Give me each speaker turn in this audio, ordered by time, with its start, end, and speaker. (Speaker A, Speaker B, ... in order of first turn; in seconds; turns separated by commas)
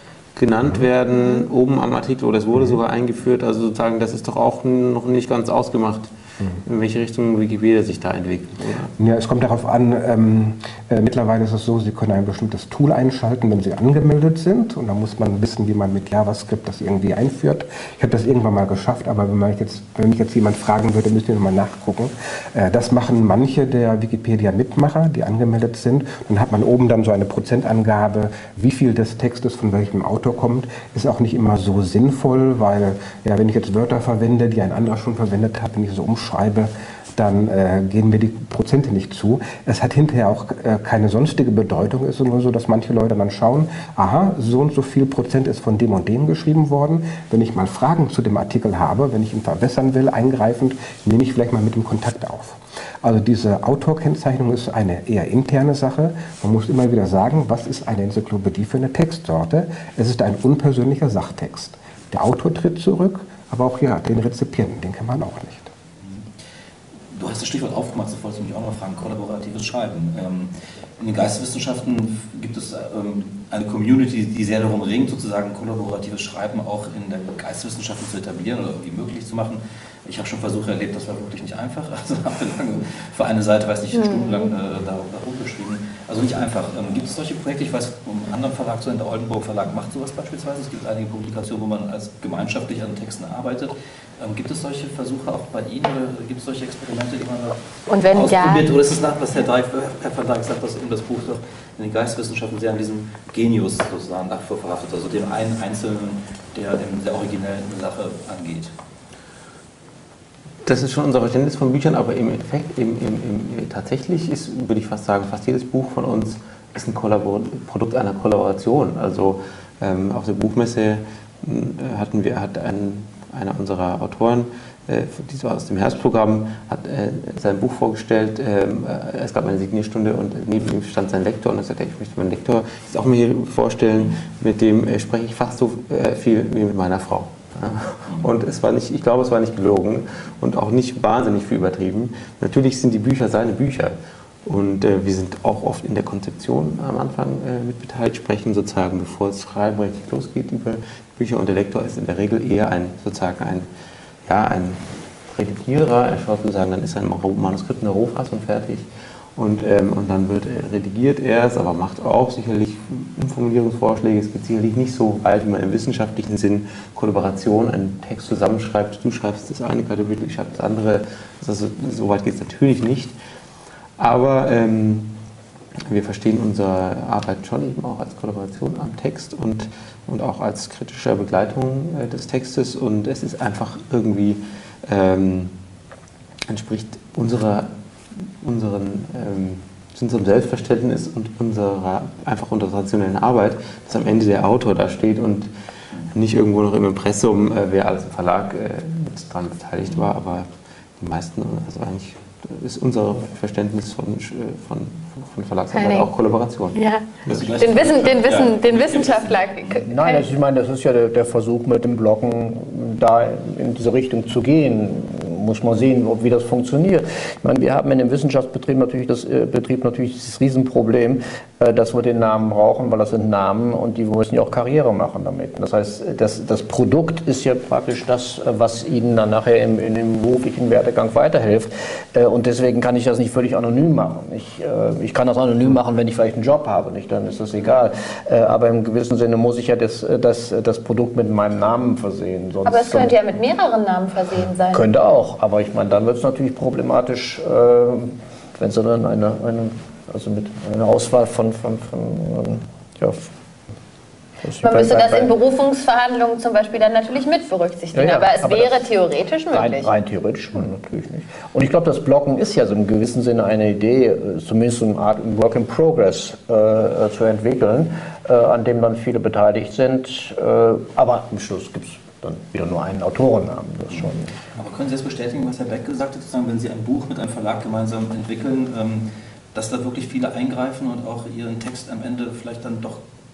Speaker A: 0.3-6.1, Speaker B: 1.1-1.4, Speaker A: 6.6-8.9, Speaker C: 9.0-65.7, Speaker D: 67.1-97.6, Speaker B: 84.0-84.5, Speaker B: 97.9-98.7, Speaker D: 98.1-108.7, Speaker A: 110.7-153.7, Speaker A: 154.3-173.1, Speaker A: 174.0-175.1, Speaker A: 175.9-185.5, Speaker A: 186.5-195.5, Speaker A: 196.0-200.5, Speaker A: 201.0-207.4, Speaker B: 205.7-206.1, Speaker B: 206.7-210.2, Speaker D: 207.2-209.8, Speaker E: 209.8-243.2, Speaker B: 242.6-244.9, Speaker E: 244.7-253.3, Speaker E: 254.4-255.3, Speaker B: 254.6-259.9, Speaker E: 257.9-258.8, Speaker E: 259.5-274.3, Speaker D: 274.6-283.0